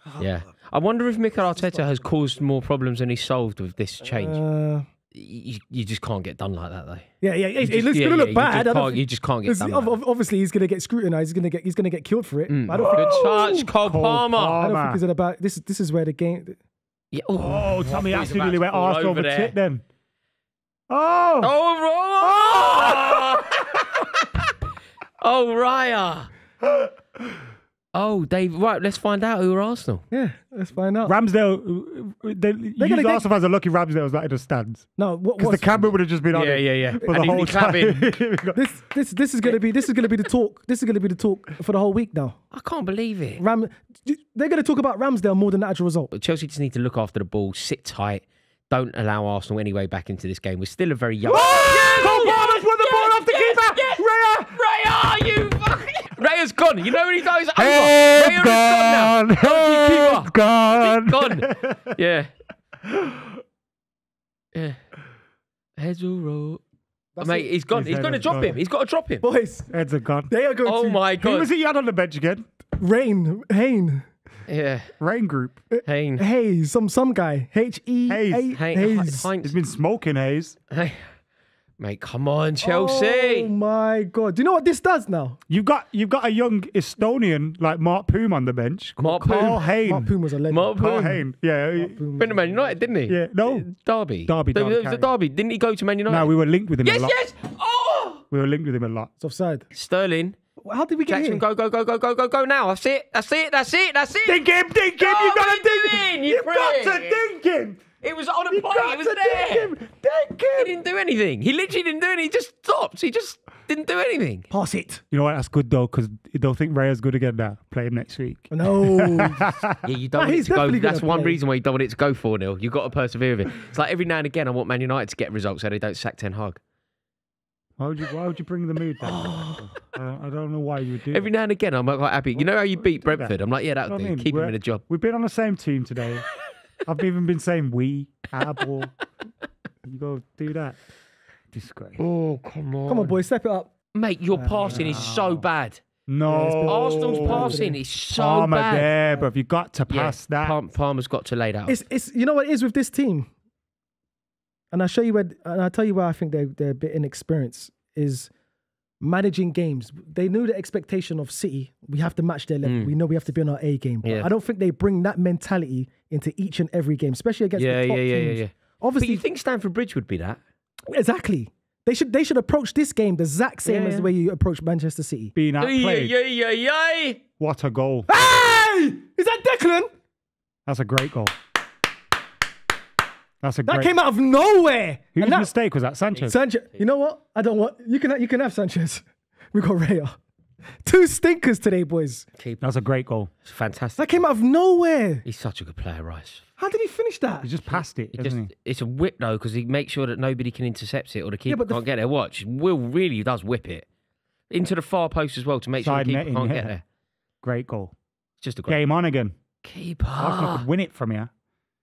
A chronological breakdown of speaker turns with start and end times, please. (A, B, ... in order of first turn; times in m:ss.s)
0:00.2-0:04.4 A
0:04.1-0:04.9 B
0:05.1-0:07.1 A
0:07.2-0:13.5 B
0:07.6-0:10.0 A
0:12.5-0:14.6 A
0:12.8-0:15.0 C
0:14.6-0:16.6 B
0:17.1-0:19.6 A
0:17.4-0:19.8 C
0:20.9-0:21.5 C
0:21.4-0:24.2 A
0:22.2-0:23.3 C
0:25.2-0:26.3 A
0:27.9-0:30.0 A
0:30.1-0:31.1 B
0:31.0-0:38.6 C
0:32.8-0:33.2 B
0:35.0-0:35.9 B
0:36.3-0:38.1 A
0:38.5-0:42.4 B
0:42.5-0:43.4 A
0:43.4-0:46.1 B
0:46.1-1:02.3 A
0:51.2-0:54.6 C
0:52.0-0:52.4 B
0:57.6-1:01.9 C
1:02.8-1:03.4 C
1:05.8-1:06.6 A
1:07.2-1:07.5 B
1:07.2-1:09.2 A
1:07.7-1:08.6 C
1:09.2-1:09.7 B
1:09.7-1:10.3 C
1:10.3-1:11.0 B
1:10.6-1:11.5 A
1:11.2-1:12.5 C
1:12.8-1:14.0 B
1:14.5-1:14.9 A
1:15.0-1:15.6 C
1:15.7-1:19.3 B
1:15.8-1:16.2 A
1:18.1-1:18.6 C
1:18.5-1:19.6 A
1:19.4-1:20.6 C
1:20.7-1:21.1 A
1:21.8-1:23.5 A
1:22.6-1:25.4 B
1:25.5-1:30.1 C
1:29.0-1:29.8 A
1:29.4-1:30.9 B
1:30.5-1:31.2 A
1:30.8-1:32.0 C
1:31.8-1:32.8 B
1:32.2-1:36.3 A
1:33.1-1:33.7 C
1:34.2-1:35.1 C
1:36.1-1:37.2 C
1:36.8-1:38.2 A
1:38.3-1:39.1 C
1:39.2-1:39.7 B
1:39.7-1:40.4 A
1:40.6-1:41.4 B
1:41.1-1:44.4 A
1:44.2-1:47.8 C
1:45.0-1:47.2 A
1:48.0-1:49.7 A
1:48.5-1:50.7 B
1:50.5-1:54.5 A
1:54.5-1:55.0 B
1:55.1-1:59.8 C
1:58.5-1:59.6 B
1:59.8-2:06.6 A
2:00.2-2:01.4 B
2:07.8-2:11.3 C
2:09.3-2:09.8 A
2:11.1-2:14.8 A
2:12.3-2:16.2 C
2:16.9-2:18.9 C
2:19.8-2:20.8 C
2:21.5-2:22.0 C
2:22.0-2:23.2 A
2:22.9-2:23.7 B
2:23.9-2:25.8 A
2:24.3-2:25.0 B
2:24.6-2:25.4 C
2:26.1-2:30.6 C
2:26.3-2:27.8 B
2:26.6-2:28.9 A
2:29.9-2:31.8 A
2:31.7-2:33.3 B
2:34.7-2:38.3 B
2:39.0-2:49.2 B
2:42.6-2:42.9 A
2:44.0-2:44.3 A
2:47.6-2:50.4 A
2:50.9-2:55.3 B
2:53.6-2:54.1 A
2:55.3-2:56.1 C
2:55.6-2:57.2 A
2:57.4-2:58.1 C
2:58.1-2:59.9 B
3:00.7-3:01.3 C
3:03.4-3:03.9 C
3:03.6-3:05.5 B
3:05.1-3:06.4 C
3:06.1-3:06.8 A
3:06.2-3:10.2 B
3:10.8-3:12.3 B
3:12.4-3:12.6 A
3:12.6-3:13.3 C
3:13.4-3:14.2 A
3:14.0-3:15.2 B
3:15.2-3:16.4 A
3:16.6-3:17.5 B
3:17.4-3:18.5 C
3:17.7-3:23.9 A
3:21.5-3:21.8 B
3:24.5-3:26.8 A
3:25.8-3:26.7 C
3:27.4-3:27.9 C
3:28.4-3:28.8 A
3:28.7-3:29.3 C
3:29.6-3:30.6 A
3:30.2-3:31.3 C